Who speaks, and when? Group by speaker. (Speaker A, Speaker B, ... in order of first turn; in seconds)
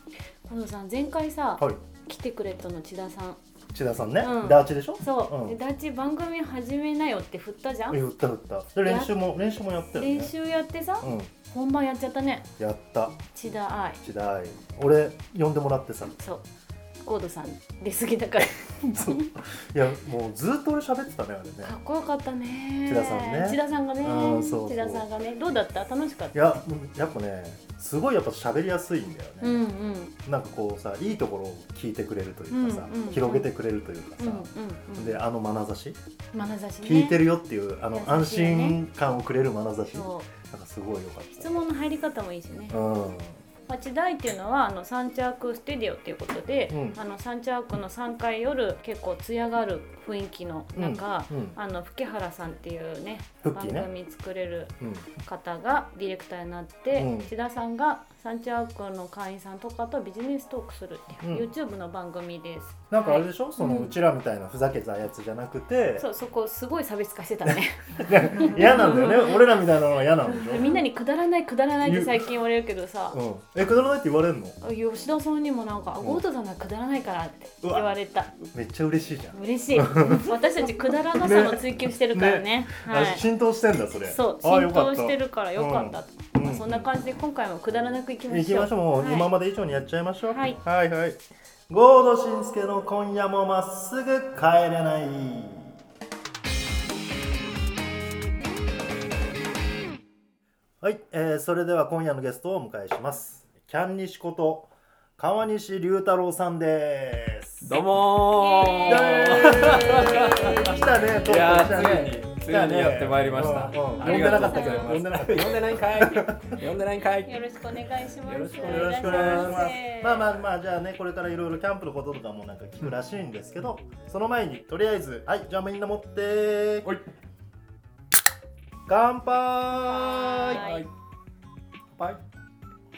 Speaker A: 0.4-3.4, 4.2-8.0, 8.8-9.3, 10.0-12.5, 13.3-14.0, 16.2-16.4, 17.0-19.3, 21.6-26.5, 29.4-30.1, 32.5-33.5, 34.2-35.2, 36.3-37.2, 37.9-38.8, 39.9-40.3, 41.4-42.8, 43.7-63.9, 66.0-69.6, 70.3-73.2, 74.6-78.3, 79.3-83.2, 84.0-89.3, 90.3-90.6, 108.2-111.3, 113.9-115.5, 117.2-120.3, 129.9-130.9
Speaker B: 3.7-5.5, 7.9-10.3, 11.0-11.3, 12.6-13.2, 14.0-16.2, 18.8-21.7, 22.8-25.1, 26.3-29.7, 30.2-36.0, 36.8-41.5, 42.7-43.4, 46.7-47.0, 50.7-51.5, 53.4-53.9, 54.8-55.0, 56.9-57.3, 61.2-61.5, 62.9-66.1, 67.4-70.7, 71.8-72.2, 73.1-74.6, 77.6-86.9, 88.3-95.8, 100.8-107.8, 108.8-116.5, 118.6-126.9, 128.9-130.6
Speaker C: 107.6-117.6, 118.2-119.8, 130.4-130.9, 131.9-132.2